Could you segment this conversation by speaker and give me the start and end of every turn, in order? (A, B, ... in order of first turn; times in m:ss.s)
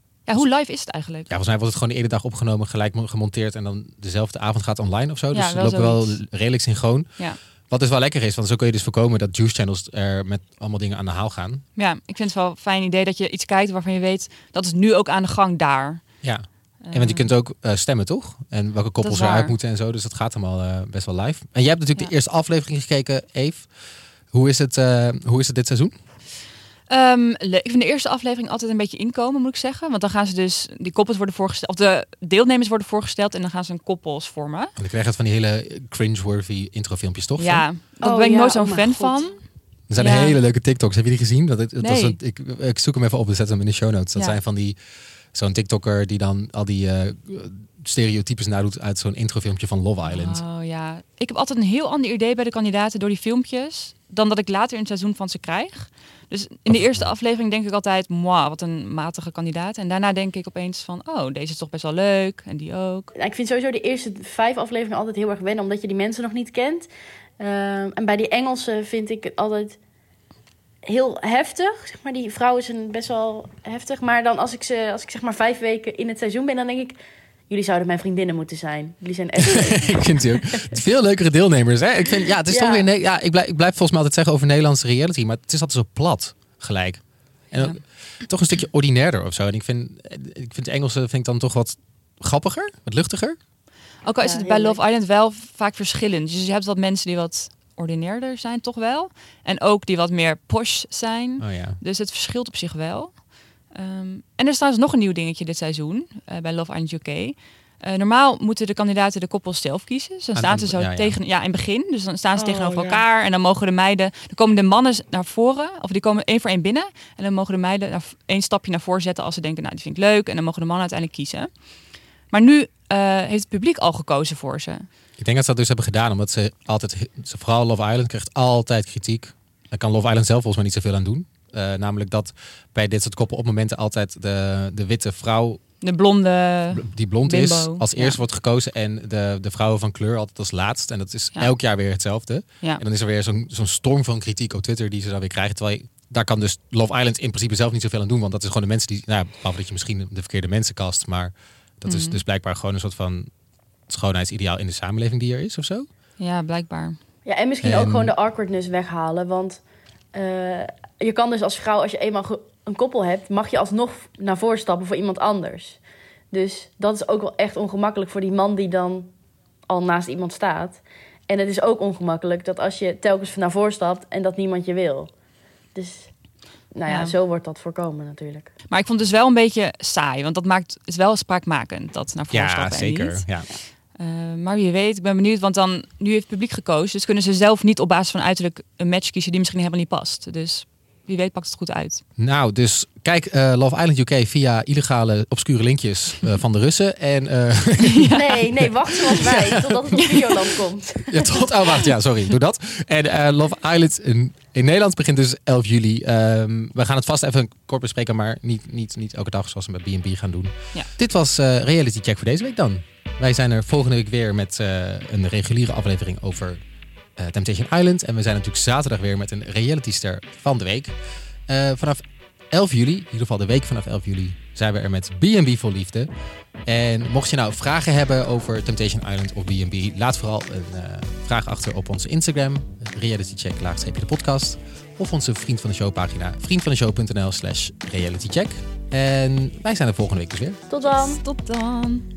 0:00.3-0:01.3 A
0:01.3-0:11.6 B
0:05.3-0:06.2 A
0:11.8-0:16.1 A
0:16.2-0:23.7 B
0:16.8-0:17.3 A
0:19.0-0:19.5 A
0:24.3-0:26.0 B
0:26.9-0:34.7 A
0:34.8-0:37.7 B
0:37.4-0:40.4 A
0:38.0-0:39.3 C
0:39.9-0:44.8 B
0:41.8-0:42.2 A
0:45.3-0:50.4 B
0:50.1-1:03.1 A
0:56.7-0:57.1 B
1:03.1-1:09.8 C
1:10.8-1:17.0 C
1:17.5-1:20.7 C
1:19.4-1:33.4 B
1:22.5-1:22.9 C
1:34.0-2:01.7 A
1:34.2-1:34.8 C
1:41.4-1:41.8 B
1:50.4-1:51.2 B
1:52.4-1:53.0 C
2:02.3-2:04.9 A
2:05.2-2:15.6 B
2:15.8-2:18.2 A
2:16.7-2:33.3 B
2:31.9-2:32.2 A
2:33.9-2:35.9 B
2:36.2-2:37.0 A
2:37.2-2:39.6 C
2:37.6-2:38.1 B
2:40.1-2:45.8 C
2:46.3-2:49.1 C
2:49.7-2:55.1 C
2:55.8-2:56.1 C
2:56.7-2:58.5 C
2:56.9-2:57.1 A
2:58.7-3:03.3 A
3:02.3-3:03.5 B
3:04.0-3:12.0 A
3:12.2-3:20.2 B
3:17.9-3:18.4 A
3:18.1-3:21.5 C
3:21.1-3:36.6 B
3:37.2-3:41.0 B
3:41.5-3:46.1 B
3:46.7-4:00.6 B
4:00.7-4:01.2 C
4:00.8-4:02.1 A